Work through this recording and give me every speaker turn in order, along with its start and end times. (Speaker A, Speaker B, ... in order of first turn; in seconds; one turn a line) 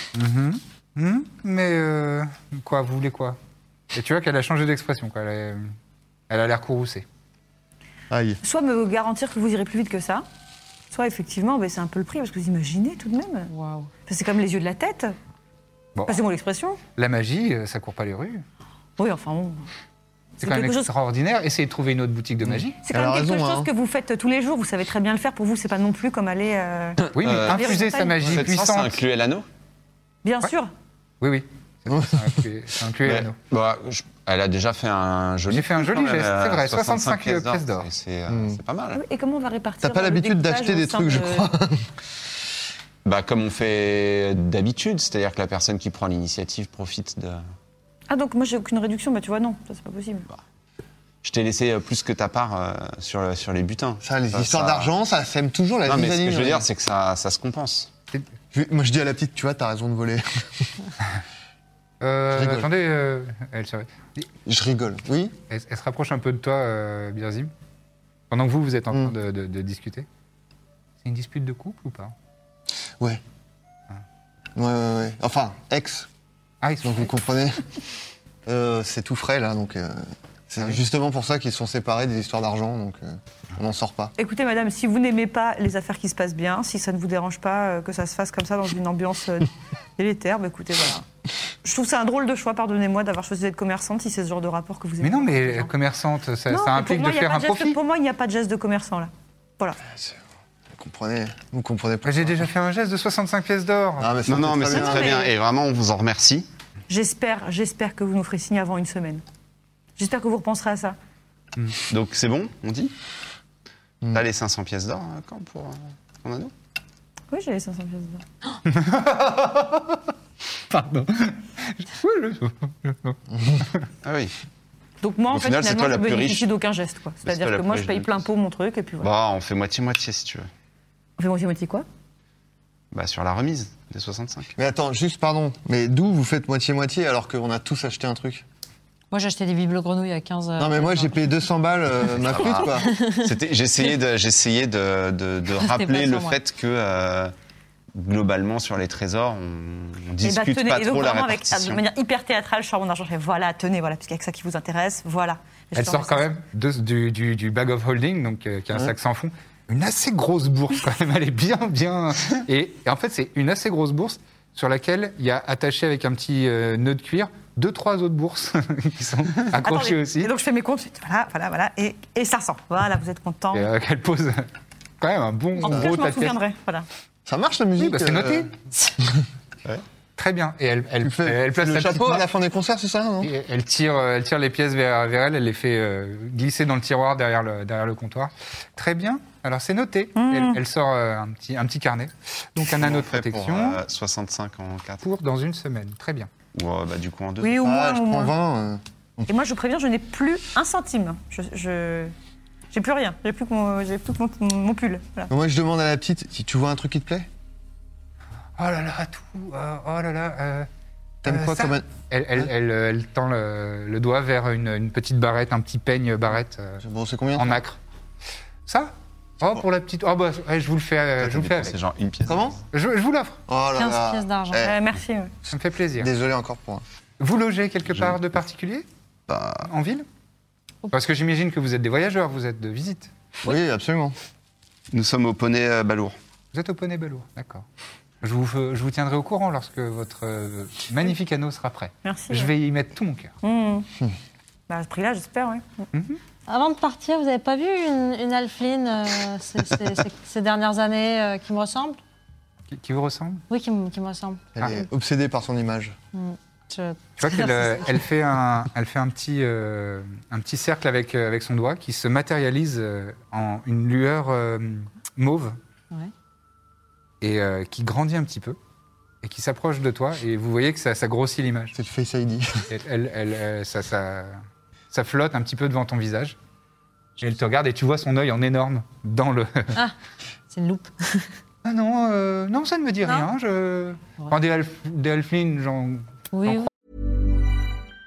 Speaker A: 0.1-3.4
Speaker A: 3.9-5.7
Speaker A: 6.3-7.0
Speaker B: 8.1-8.4
Speaker C: 8.4-10.2
Speaker C: 10.9-13.5
Speaker D: 13.5-13.9
Speaker C: 14.1-15.1
Speaker C: 16.1-16.8
Speaker A: 16.9-18.4
Speaker C: 19.0-19.7
Speaker C: 20.4-20.9
Speaker A: 20.4-22.8
Speaker B: 22.5-23.7
Speaker C: 22.8-28.2
Speaker E: 27.0-29.4
Speaker A: 27.1-29.0
Speaker C: 30.2-30.7
Speaker A: 31.2-33.4
Speaker B: 31.9-32.3
Speaker E: 33.0-39.0
Speaker A: 35.5-37.9
Speaker B: 38.3-38.6
Speaker C: 38.9-41.5
Speaker B: 39.8-41.9
Speaker E: 43.0-47.4
Speaker C: 48.1-50.2
Speaker E: 51.2-54.9
Speaker B: 54.0-56.6
Speaker E: 55.9-57.9
Speaker B: 58.5-60.7
Speaker A: 62.0-64.3
Speaker B: 62.3-62.7
Speaker B: 64.5-65.3
Speaker A: 65.5-67.5
Speaker A: 68.3-70.1
Speaker A: 71.0-72.1
Speaker B: 74.5-76.1
Speaker A: 76.6-77.1
Speaker B: 76.8-77.7
Speaker B: 78.5-84.1
Speaker C: 84.2-91.0
Speaker C: 91.6-95.7
Speaker A: 95.0-97.8
Speaker C: 96.5-99.8
Speaker B: 99.9-100.2
Speaker B: 100.7-102.5
Speaker A: 102.0-104.2
Speaker B: 104.0-105.3
Speaker E: 104.2-106.5
Speaker C: 104.7-105.3
Speaker C: 106.9-109.2
Speaker C: 110.0-111.0
Speaker E: 111.9-112.9
Speaker E: 114.1-116.5
Speaker C: 117.3-118.2
Speaker A: 118.7-120.0
Speaker A: 120.7-123.8
Speaker E: 124.0-124.3
Speaker C: 125.0-129.1
Speaker E: 125.3-126.5
Speaker E: 127.2-128.2
Speaker E: 129.0-130.5
Speaker C: 131.2-131.8
Speaker E: 132.9-134.5
Speaker B: 134.6-138.4
Speaker D: 139.1-141.2
Speaker B: 140.6-142.9
Speaker E: 142.2-147.3
Speaker D: 142.8-143.3
Speaker D: 145.5-146.4
Speaker E: 147.9-151.8
Speaker C: 150.2-156.3
Speaker A: 155.7-170.3
Speaker C: 169.6-173.7
Speaker A: 173.5-174.5
Speaker A: 175.0-176.4
Speaker C: 175.6-176.9
Speaker B: 177.2-179.2
Speaker A: 177.8-178.6
Speaker A: 180.2-182.2
Speaker B: 181.0-183.3
Speaker A: 183.2-193.8
Speaker C: 190.2-190.6
Speaker E: 192.7-195.0
Speaker A: 195.0-196.3
Speaker E: 196.5-197.6
Speaker C: 197.4-198.3
Speaker B: 197.6-199.3
Speaker C: 199.3-202.1
Speaker C: 202.7-205.3
Speaker B: 205.3-207.3
Speaker A: 208.6-210.7
Speaker B: 211.2-212.5
Speaker A: 211.2-216.8
Speaker B: 216.8-217.6
Speaker A: 217.4-217.8
Speaker A: 218.7-221.8
Speaker E: 221.2-222.6
Speaker B: 222.2-222.6
Speaker A: 222.7-223.4
Speaker B: 223.5-224.8
Speaker D: 223.7-224.7
Speaker C: 224.6-225.3
Speaker B: 225.4-226.8
Speaker A: 225.5-226.1
Speaker A: 227.2-228.8
Speaker E: 229.3-229.6
Speaker A: 229.6-230.1
Speaker A: 230.9-233.1
Speaker B: 233.4-234.2
Speaker E: 234.9-236.2
Speaker A: 236.5-237.6
Speaker A: 238.2-243.3
Speaker C: 242.0-242.5
Speaker C: 243.4-243.9
Speaker C: 244.7-245.8
Speaker A: 245.9-246.2
Speaker D: 246.5-252.0
Speaker A: 252.7-253.4
Speaker D: 253.5-254.6
Speaker B: 254.6-255.9
Speaker D: 256.1-258.1
Speaker A: 257.2-265.6
Speaker A: 267.2-268.6
Speaker A: 269.2-271.7
Speaker B: 271.7-272.6
Speaker A: 272.7-276.4
Speaker A: 277.2-279.8
Speaker D: 280.5-281.4
Speaker A: 281.6-286.7
Speaker D: 286.3-286.7